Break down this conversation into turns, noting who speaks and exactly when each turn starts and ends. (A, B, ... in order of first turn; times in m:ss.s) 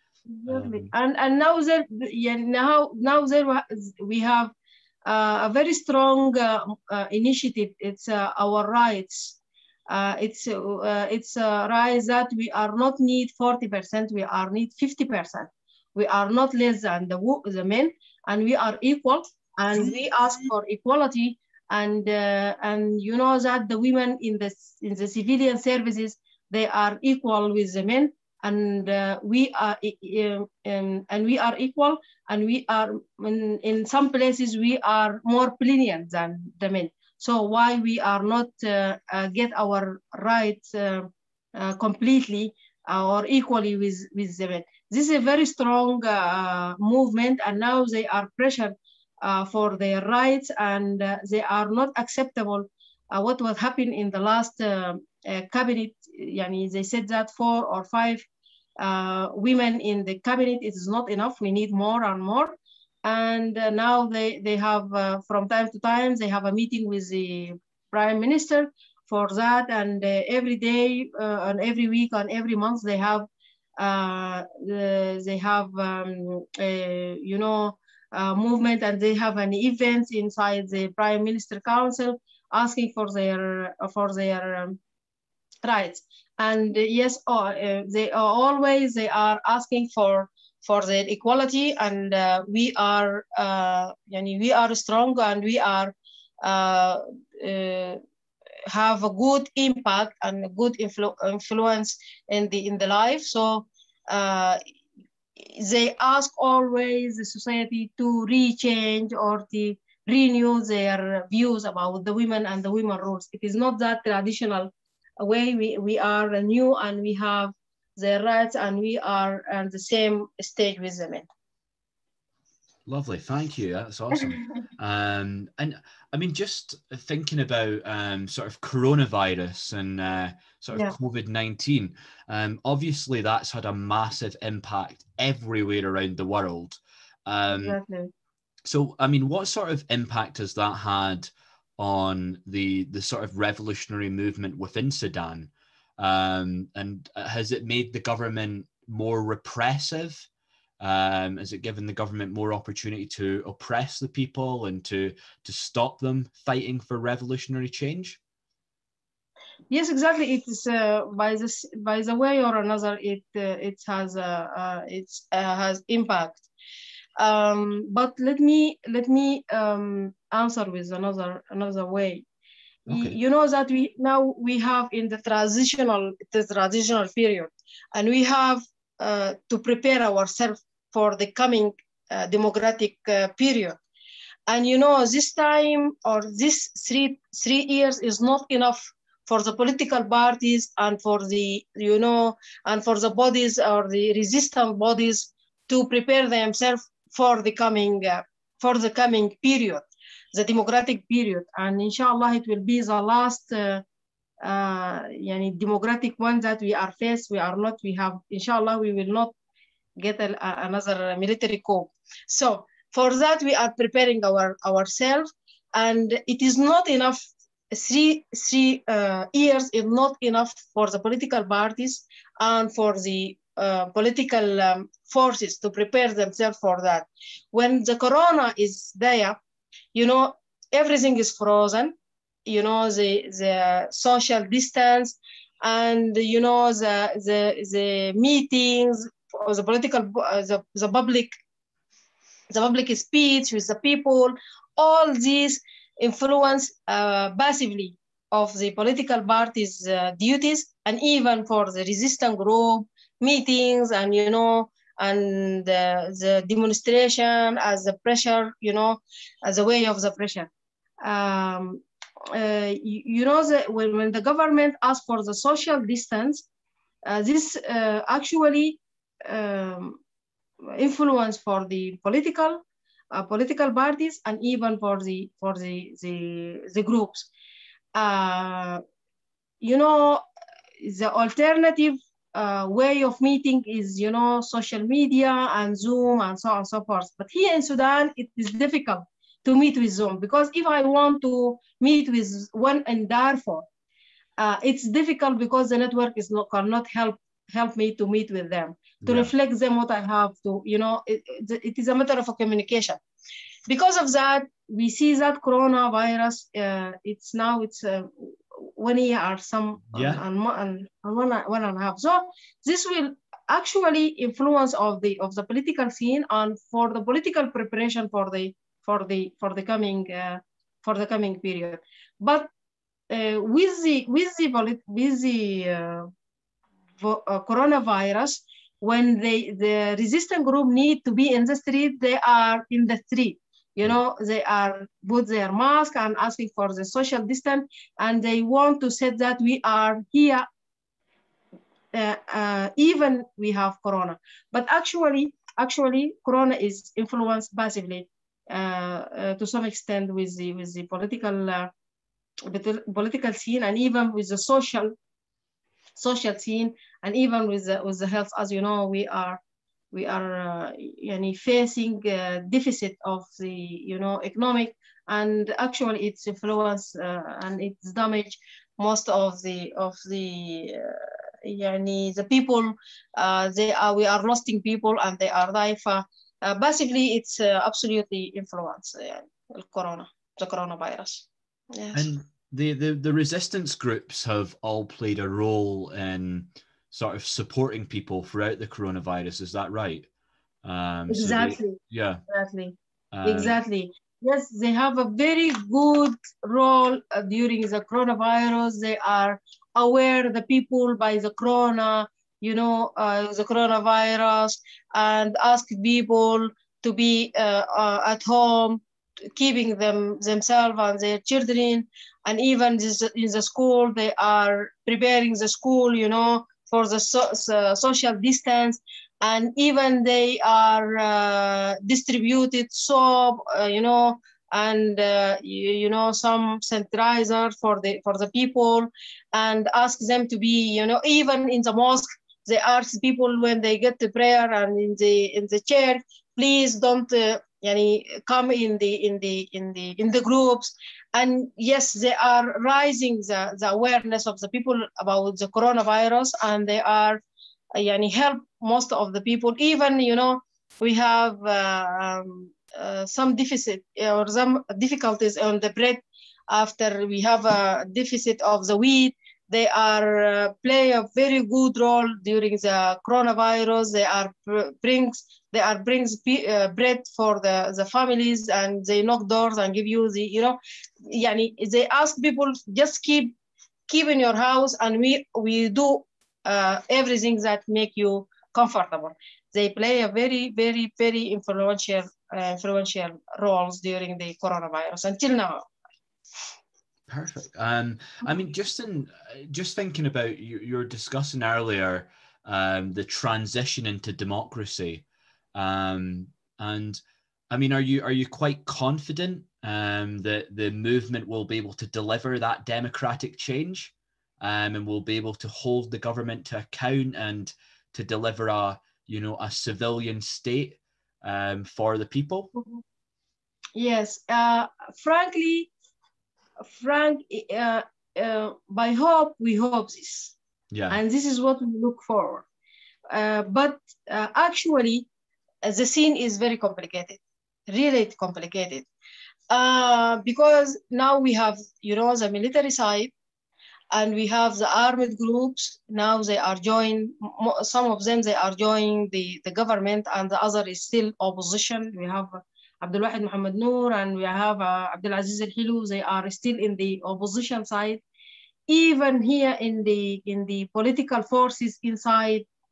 0:00.3-0:04.5 A
0:00.5-0:00.9 B
0:05.0-0:58.3 A
0:58.8-1:24.8 A
1:25.6-1:38.0 A
1:38.7-1:44.6 A
1:45.4-2:01.3 A
2:02.9-2:17.8 B
2:17.5-2:18.1 A
2:18.6-2:30.3 B
2:30.8-2:38.2 B
2:39.7-2:46.5 A
2:47.2-2:52.2 A
2:52.9-2:53.2 B
2:52.9-3:03.8 A
3:04.5-3:23.8 A
3:24.4-3:29.3 A
3:30.0-3:49.4 A
3:49.9-4:01.4 A
4:02.5-4:20.5 A
4:21.0-4:26.5 A
4:27.0-4:30.0 A
4:30.7-4:37.3 A
4:37.9-4:38.8 A
4:39.6-4:40.2 A
4:40.8-4:53.6 A
4:54.4-5:03.0 A
4:59.0-4:59.3 B
5:03.7-5:22.5 A
5:09.9-5:10.2 B
5:23.1-5:26.1 A
5:27.0-5:40.5 A
5:41.9-5:51.7 A
5:52.5-5:55.0 A
5:56.0-5:59.4 A
5:59.9-6:22.1 A
6:21.9-6:30.1 B
6:30.6-6:32.2 B
6:31.1-6:48.8 A
6:33.1-6:33.6 B
6:49.3-7:27.2 A
7:27.7-7:53.4 A
7:53.9-8:05.7 A
8:07.1-8:15.0 B
8:15.6-8:17.0 B
8:17.5-8:32.5 B
8:32.6-8:32.8 A
8:33.8-8:35.7 A
8:36.6-8:40.4 A
8:40.7-8:41.0 B
8:40.9-8:42.5 A
8:43.1-8:45.1 A
8:45.6-8:48.9 A
8:49.5-8:53.1 A
8:53.9-9:08.0 A
9:08.7-9:12.5 A